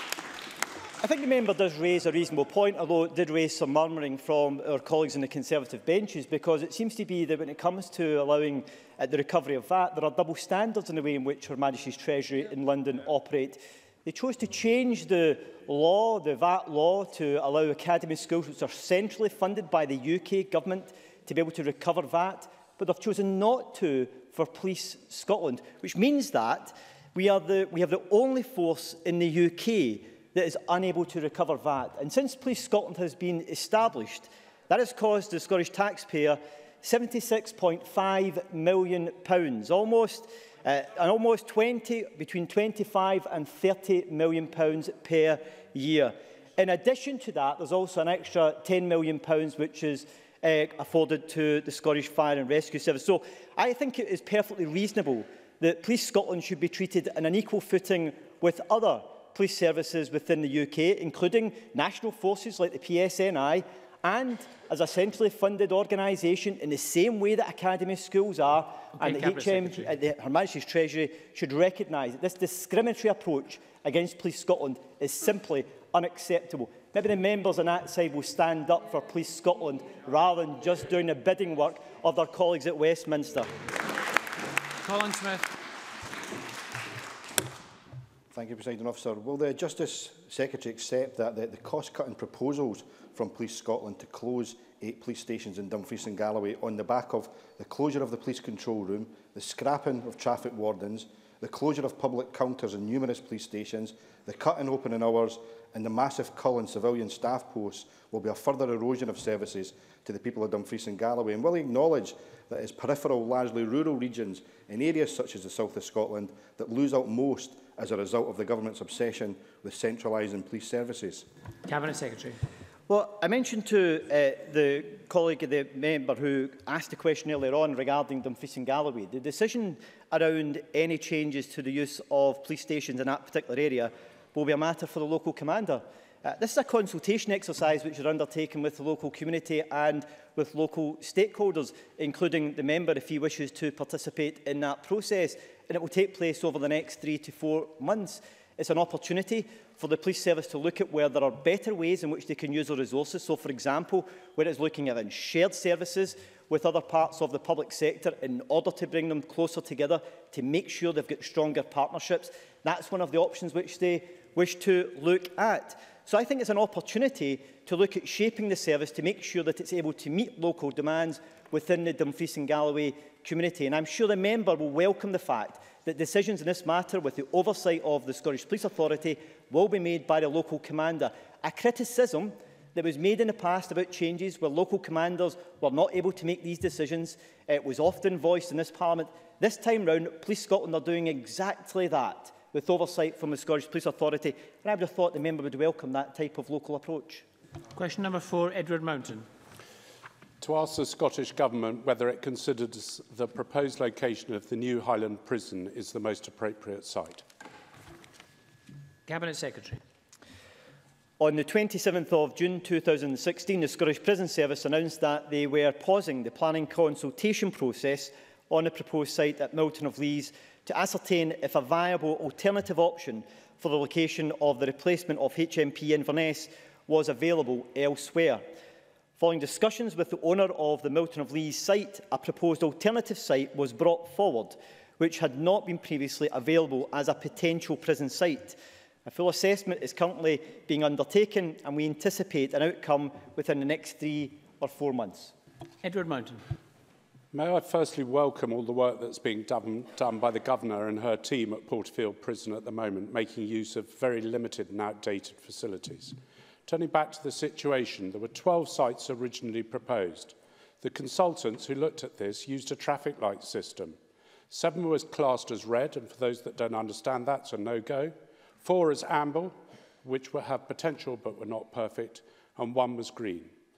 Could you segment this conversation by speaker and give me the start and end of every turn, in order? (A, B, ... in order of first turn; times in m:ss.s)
0:01.0-1:23.5 A
1:09.0-1:09.9 B
1:24.8-1:25.5 B
1:28.3-2:01.3 C
2:01.6-2:02.4 B
2:02.9-3:17.2 A
3:17.8-3:19.3 B
3:20.4-3:27.2 D
3:29.1-3:29.8 B
3:31.2-3:48.4 A
3:49.2-4:05.3 A
4:05.8-4:06.4 B
4:07.3-4:24.0 D
4:24.5-4:33.5 D